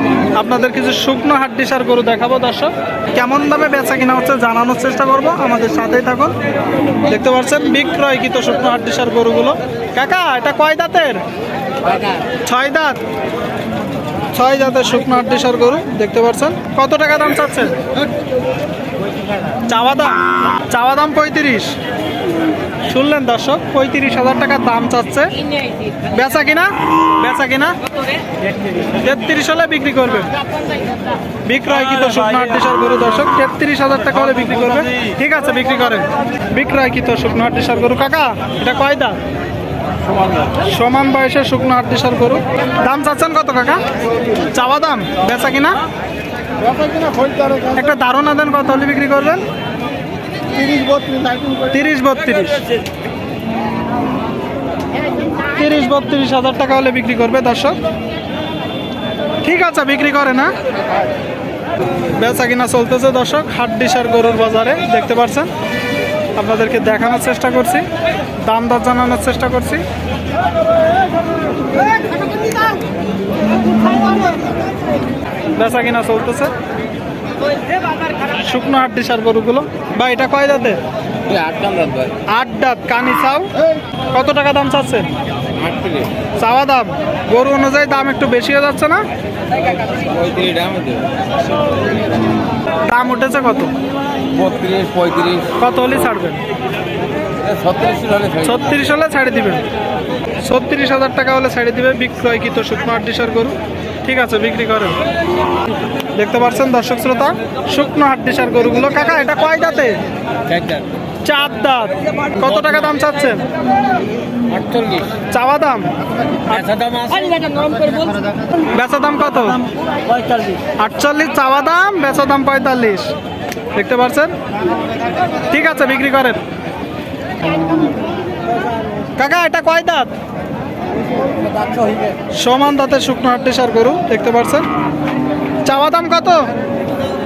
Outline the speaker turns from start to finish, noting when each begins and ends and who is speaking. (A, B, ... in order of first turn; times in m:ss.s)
0:00.3-0:06.4 A
0:07.0-0:11.2 A
0:12.4-0:13.0 A
0:14.3-0:17.8 A
0:19.7-0:21.8 A
0:22.9-0:25.4 A
0:26.0-0:27.8 A
0:29.0-0:30.3 A
0:31.4-0:39.2 A
0:40.6-0:43.8 A
0:44.4-0:45.8 A
0:47.7-0:49.4 A
0:51.5-0:52.6 A
0:55.5-0:57.8 A
0:59.4-1:00.5 A
1:02.1-1:05.5 A
1:06.3-1:07.9 A
1:08.4-1:09.8 A
1:15.6-1:16.5 A
1:18.3-1:20.8 A
1:21.2-1:22.2 B
1:22.3-1:23.5 A
1:24.1-1:25.1 A
1:25.6-1:26.1 B
1:26.4-1:29.0 A
1:29.9-1:31.1 B
1:32.9-1:33.7 A
1:34.3-1:35.5 B
1:35.5-1:36.4 A
1:37.4-1:38.4 B
1:38.4-1:39.6 A
1:40.4-1:45.0 A
1:46.2-1:50.0 A
1:50.5-1:50.8 B
1:51.2-1:53.4 A
1:54.5-1:55.0 B
1:55.3-1:55.9 A
1:56.6-1:58.2 B
1:58.7-1:59.6 A
2:00.8-2:03.1 A
2:03.7-2:04.3 A
2:05.5-2:06.4 A
2:09.2-2:10.1 A
2:12.3-2:14.7 A
2:15.6-2:16.5 A